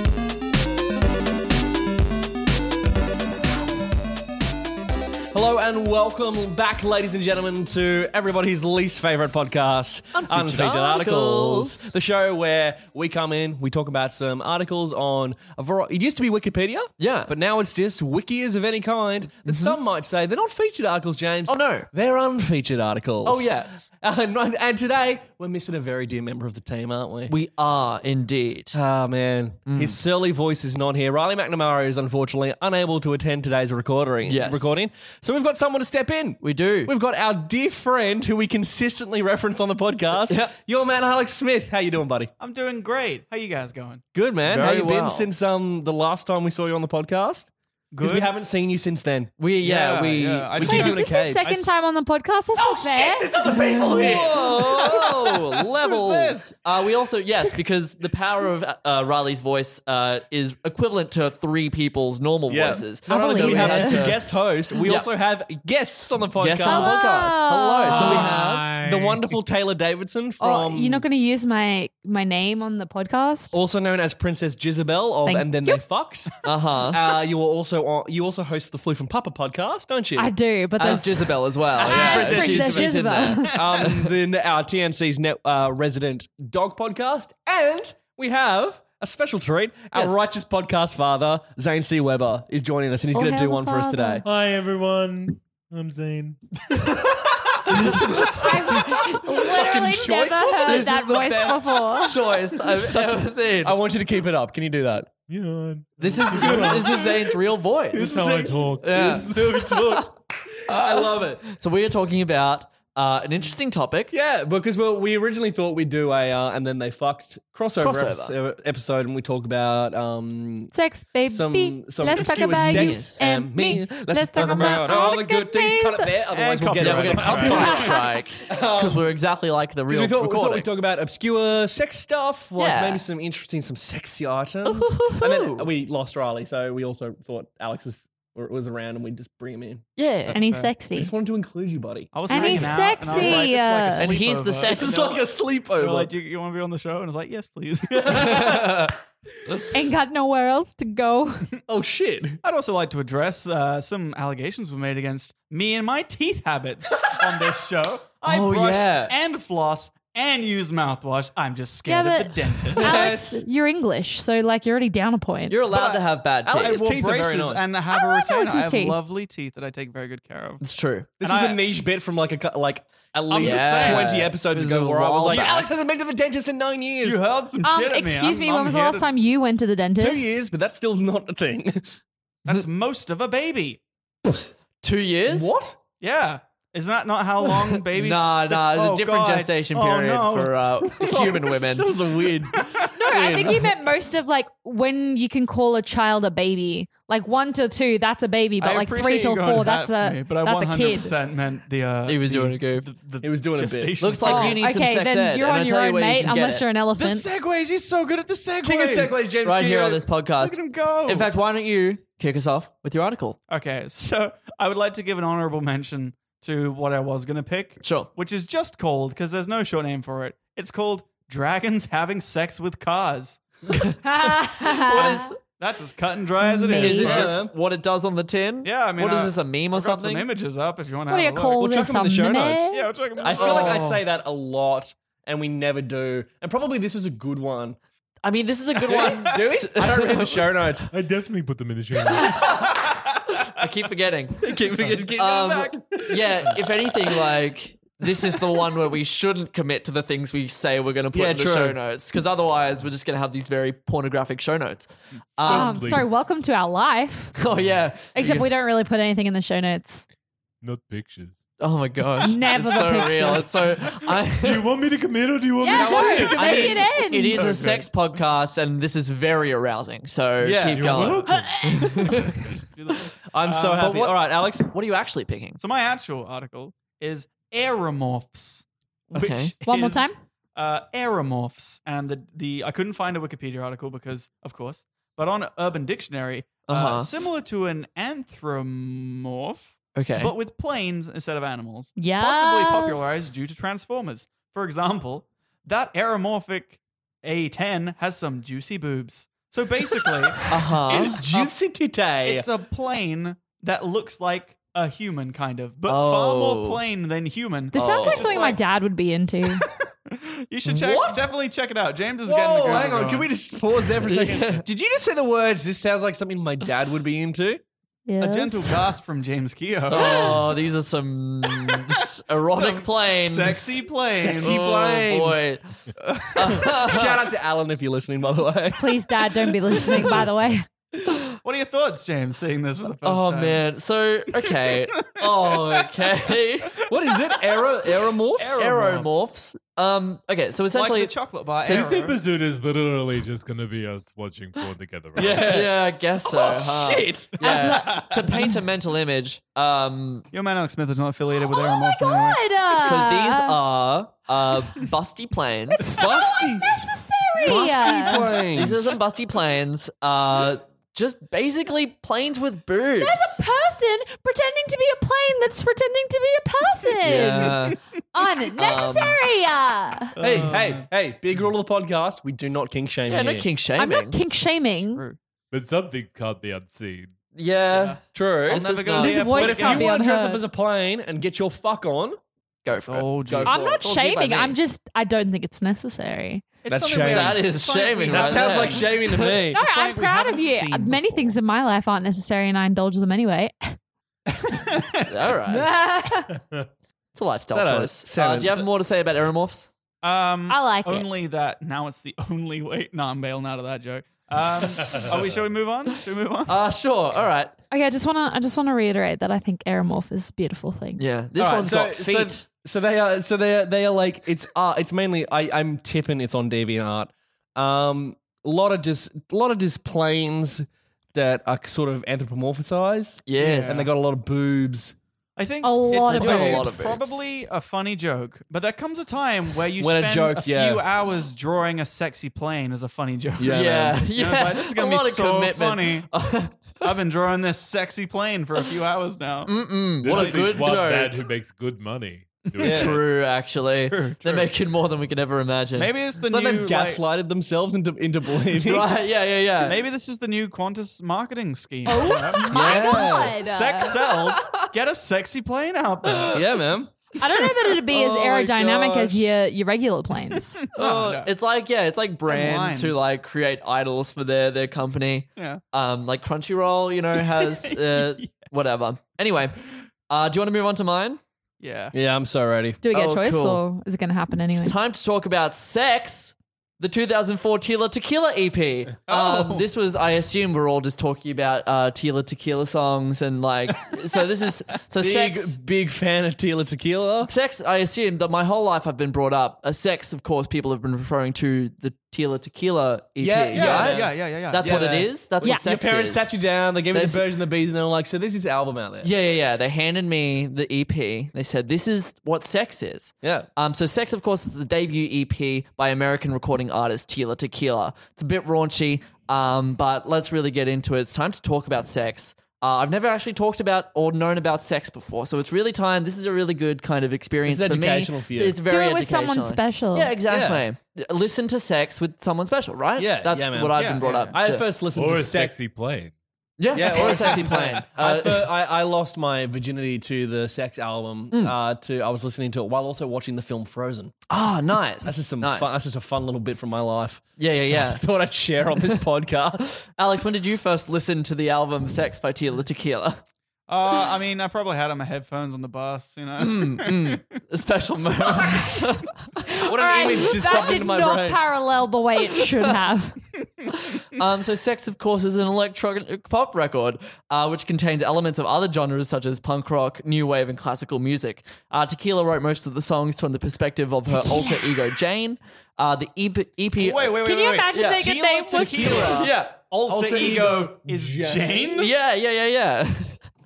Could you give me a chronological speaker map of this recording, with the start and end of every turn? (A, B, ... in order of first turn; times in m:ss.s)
0:05.3-0:27.3 A
0:10.2-0:11.9 B
0:17.0-0:17.3 B
0:19.5-0:19.8 B
0:21.5-0:21.9 B
0:23.2-0:23.9 B
0:27.3-0:28.8 B
0:28.7-0:42.3 A
0:29.7-0:30.0 B
0:34.2-0:34.8 B
0:36.4-0:36.9 B
0:40.3-0:40.5 B
0:42.4-0:44.0 C
0:44.1-0:49.3 A
0:44.5-0:45.3 B
0:47.9-0:48.3 C
0:49.4-0:50.5 B
0:49.6-0:51.7 C
0:50.6-0:51.5 A
0:50.6-0:53.3 D
0:52.6-0:55.1 A
0:53.5-1:04.3 B
0:54.0-0:55.3 C
0:55.8-0:56.5 C
1:02.5-1:07.1 A
1:03.1-1:04.1 D
1:06.4-1:08.7 B
1:06.6-1:08.3 D
1:07.9-1:11.1 A
1:07.9-1:09.4 E
1:10.4-1:13.6 D
1:13.5-1:20.3 A
1:15.2-1:15.8 D
1:16.4-1:17.1 B
1:20.2-1:23.6 D
1:20.8-1:24.1 B
1:21.8-1:23.0 A
1:23.5-1:34.2 A
1:33.1-1:34.2 D
1:34.2-1:36.6 E
1:37.7-1:38.3 E
1:38.3-1:42.2 D
1:38.7-1:41.3 A
1:40.8-1:42.1 C
1:42.0-1:43.8 B
1:42.9-1:45.1 A
1:45.3-1:47.4 E
1:46.0-1:50.1 B
1:46.3-1:47.0 A
1:47.9-1:50.1 E
1:47.9-1:49.5 A
1:50.7-1:51.4 A
1:50.7-1:54.1 B
1:54.1-2:00.7 A
1:57.8-1:58.3 B
2:00.7-2:06.2 D
2:01.3-2:08.0 A
2:02.6-2:03.2 B
2:06.3-2:08.0 C
2:06.8-2:10.7 B
2:07.4-2:08.1 D
2:08.5-2:09.1 A
2:09.9-2:19.8 A
2:12.6-2:13.0 B
2:14.6-2:15.7 B
2:20.0-2:20.4 B
2:20.3-2:20.7 C
2:20.3-2:21.1 D
2:20.9-2:23.4 A
2:22.1-2:28.6 C
2:22.3-2:24.1 D
2:23.1-2:25.2 B
2:24.6-2:26.1 A
2:27.9-2:29.0 A
2:28.4-2:28.7 B
2:29.7-2:31.5 D
2:31.7-2:32.4 A
2:32.4-2:43.0 C
2:38.2-2:39.2 B
2:41.9-2:45.6 D
2:42.8-2:43.4 A
2:45.5-2:46.8 B
2:45.7-2:50.6 C
2:46.4-2:47.7 A
2:47.9-2:49.0 D
2:50.6-2:51.1 B
2:51.2-2:51.6 C
2:51.2-2:57.2 A
2:53.3-2:54.2 C
2:53.4-2:55.7 B
2:55.3-2:55.7 C
2:57.0-2:59.1 C
2:57.6-3:00.3 D
3:00.0-3:02.0 A
3:02.4-3:03.8 C
3:04.8-3:05.5 B
3:05.3-3:05.8 A
3:06.0-3:11.1 C
3:07.9-3:11.9 B
3:11.0-3:13.8 A
3:12.8-3:13.6 C
3:12.9-3:21.1 D
3:18.6-3:24.6 C
3:22.1-3:22.9 B
3:23.2-3:24.2 A
3:24.0-3:26.7 B
3:24.2-3:27.3 D
3:27.0-3:29.2 C
3:28.6-3:30.0 A
3:29.4-3:33.4 B
3:30.4-3:31.3 C
3:33.5-3:43.4 C
3:37.8-3:38.1 B
3:44.0-3:45.4 D
3:44.7-3:45.3 B
3:44.9-3:47.4 C
3:46.4-3:47.3 D
3:46.8-3:50.3 B
3:47.0-3:47.5 A
3:48.6-3:51.6 C
3:51.1-3:52.9 D
3:51.6-3:57.8 A
3:52.7-3:54.0 C
3:53.3-3:53.9 B
3:58.2-4:00.5 B
3:58.8-4:00.9 A
4:00.9-4:02.6 E
4:02.1-4:02.8 B
4:02.7-4:03.1 C
4:03.5-4:16.0 B
4:04.4-4:07.1 A
4:11.1-4:11.8 A
4:15.4-4:16.3 E
4:15.4-4:17.4 D
4:17.4-4:18.5 B
4:17.5-4:17.8 E
4:18.2-4:20.0 D
4:20.6-4:21.4 E
4:21.6-4:24.7 B
4:22.2-4:23.5 D
4:22.4-4:27.9 E
4:25.6-4:27.4 D
4:25.7-4:27.4 A
4:26.3-4:32.4 B
4:30.4-4:31.2 A
4:30.7-4:32.3 E
4:32.2-4:34.0 C
4:33.3-4:34.7 A
4:33.7-4:35.6 B
4:35.6-5:01.5 C
4:39.2-4:39.6 B
4:39.6-4:40.2 D
4:46.7-4:47.1 B
4:50.0-4:50.3 B
4:52.0-4:53.4 D
5:00.5-5:01.2 B
5:00.9-5:02.5 A
5:02.2-5:08.6 C
5:05.9-5:06.8 B
5:07.7-5:09.7 D
5:07.8-5:08.5 A
5:10.0-5:13.3 C
5:10.7-5:11.3 A
5:12.2-5:17.6 A
5:14.0-5:14.6 B
5:18.1-5:18.9 D
5:18.2-5:20.5 C
5:19.9-5:23.8 B
5:22.4-5:24.9 C
5:24.1-5:25.5 A
5:24.4-5:25.6 B
5:26.0-5:26.7 C
5:26.4-5:27.3 B
5:26.5-5:30.1 A
5:28.8-5:30.7 D
5:31.4-5:33.6 C
5:33.0-5:36.8 B
5:34.4-5:36.9 C
5:36.9-5:39.1 A
5:38.3-5:39.3 C
5:38.5-5:41.1 B
5:40.7-5:42.2 C
5:41.6-5:45.6 E
5:45.2-5:47.4 A
5:45.2-5:50.3 B
5:47.4-5:48.6 D
5:47.5-5:48.3 C
5:50.3-5:52.4 C
5:51.4-5:53.6 D
5:52.7-5:56.0 B
5:55.8-5:58.5 D
5:55.9-5:56.7 A
5:57.4-5:59.0 A
5:58.5-6:03.4 B
6:03.0-6:10.2 D
6:07.0-6:07.8 B
6:08.6-6:09.2 B
6:10.2-6:10.9 C
6:10.2-6:13.5 A
6:13.1-6:14.2 B
6:13.8-6:15.0 D
6:14.6-6:15.2 C
6:15.5-6:17.1 E
6:17.4-6:19.4 B
6:17.7-6:19.9 C
6:18.1-6:18.7 A
6:18.9-6:20.4 D
6:19.3-6:22.2 A
6:22.6-6:24.6 B
6:22.9-6:23.5 C
6:23.3-6:23.8 A
6:23.4-6:26.5 D
6:26.6-6:28.9 C
6:26.7-6:27.5 A
6:27.0-6:29.4 B
6:28.0-6:29.6 A
6:29.5-6:33.8 D
6:29.6-6:31.3 C
6:34.3-6:35.3 C
6:35.1-6:35.7 B
6:35.5-6:36.4 D
6:37.2-6:39.7 B
6:37.5-6:38.7 A
6:40.0-6:46.6 C
6:40.5-6:41.1 D
6:44.6-6:45.5 E
6:46.5-6:47.6 B
6:47.7-6:51.0 D
6:51.0-6:52.4 B
6:51.4-7:05.0 A
7:03.3-7:03.9 B
7:03.4-7:03.9 C
7:05.4-7:16.1 C
7:05.6-7:07.0 D
7:06.0-7:07.1 B
7:09.8-7:10.8 A
7:13.4-7:14.0 A
7:13.5-7:16.9 B
7:16.8-7:19.5 C
7:19.5-7:21.2 B
7:20.0-7:23.0 E
7:20.0-7:20.9 C
7:22.6-7:23.0 A
7:22.6-7:26.0 B
7:23.8-7:24.5 C
7:25.8-7:27.0 C
7:26.2-7:28.9 A
7:28.5-7:29.8 B
7:29.6-7:36.4 C
7:31.9-7:34.0 D
7:32.4-7:33.3 B
7:32.5-7:33.3 A
7:36.3-7:36.9 A
7:37.2-7:40.6 D
7:38.2-7:39.1 A
7:40.7-7:51.2 B
7:40.7-7:41.3 C
7:42.3-7:43.0 C
7:47.4-7:48.3 C
7:51.6-7:51.9 C
7:51.9-7:52.8 A
7:52.8-7:54.7 D
7:52.9-7:53.6 B
7:54.5-8:05.6 B
7:59.1-7:59.7 C
8:05.0-8:07.3 A
8:07.2-8:16.4 B
8:13.2-8:19.1 A
8:13.5-8:15.1 C
8:16.9-8:17.3 B
8:19.0-8:44.7 B
8:23.2-8:23.5 A
8:37.5-8:38.6 A
8:38.7-8:40.1 D
8:40.3-8:40.6 A
8:43.0-8:45.6 A
8:43.7-8:44.4 C
8:44.9-8:46.1 E
8:46.6-8:48.5 B
8:46.7-8:54.2 A
8:46.8-8:47.8 C
8:54.3-8:55.7 B
8:55.0-8:59.7 A
8:57.4-8:58.0 B
8:59.8-9:03.2 B
9:03.7-9:07.2 C
9:06.4-9:09.1 B
9:09.4-9:13.2 D
9:09.6-9:11.4 A
9:13.7-9:27.1 B
9:24.1-9:24.7 D
9:26.8-9:31.9 C
9:27.2-9:29.3 D
9:27.7-9:29.6 B
9:29.9-9:31.8 A
9:31.8-9:33.3 B